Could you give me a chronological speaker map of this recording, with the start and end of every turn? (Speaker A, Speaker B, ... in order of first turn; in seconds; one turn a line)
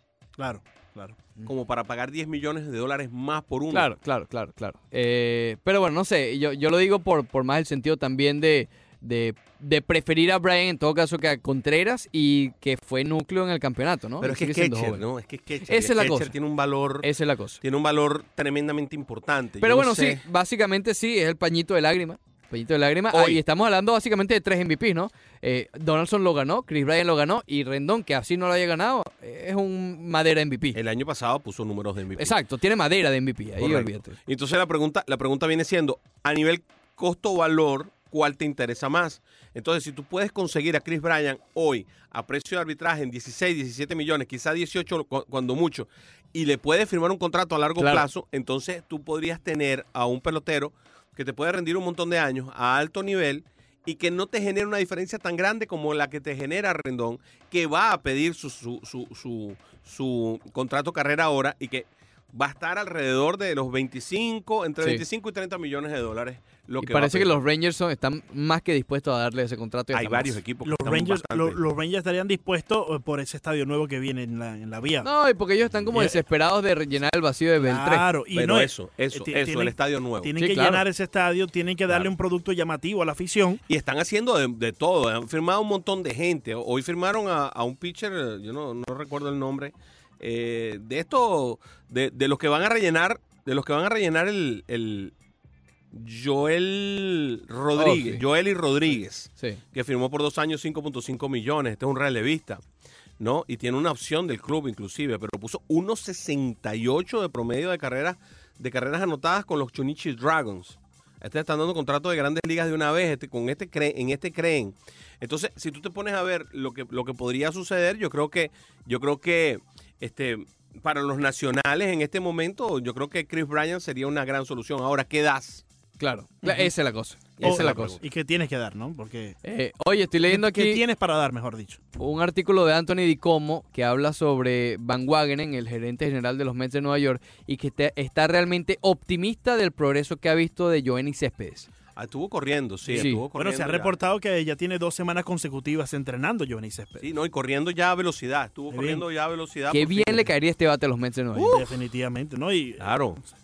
Speaker A: 0.4-1.2
Speaker B: 1.5-3.9
Speaker C: 3.7-15.0
Speaker B: 14.2-17.1
Speaker C: 15.7-16.3
Speaker C: 17.0-17.6
Speaker B: 17.6-20.2
Speaker C: 19.6-30.8
Speaker B: 23.1-23.4
Speaker B: 30.7-32.3
Speaker C: 32.2-34.2
Speaker B: 33.6-67.4
Speaker C: 47.8-48.1
Speaker C: 66.8-70.4
Speaker B: 69.9-71.6
Speaker A: 70.6-75.1
Speaker C: 75.0-78.1
Speaker A: 77.6-83.6
Speaker B: 78.3-80.3
Speaker C: 80.4-80.8
Speaker B: 83.7-95.1
Speaker B: 95.9-102.6
Speaker C: 97.8-98.2
Speaker B: 103.2-125.6
Speaker C: 126.0-128.0
Speaker B: 127.4-128.0
Speaker A: 127.4-129.4
Speaker C: 129.4-130.8
Speaker A: 130.3-131.8
Speaker C: 132.0-141.7
Speaker B: 142.0-143.9
Speaker C: 142.9-143.2
Speaker A: 143.3-147.1
Speaker B: 147.0-150.3
Speaker A: 148.7-149.0
Speaker C: 149.7-151.6
Speaker B: 151.3-151.6
Speaker A: 151.5-153.3
Speaker B: 152.8-153.2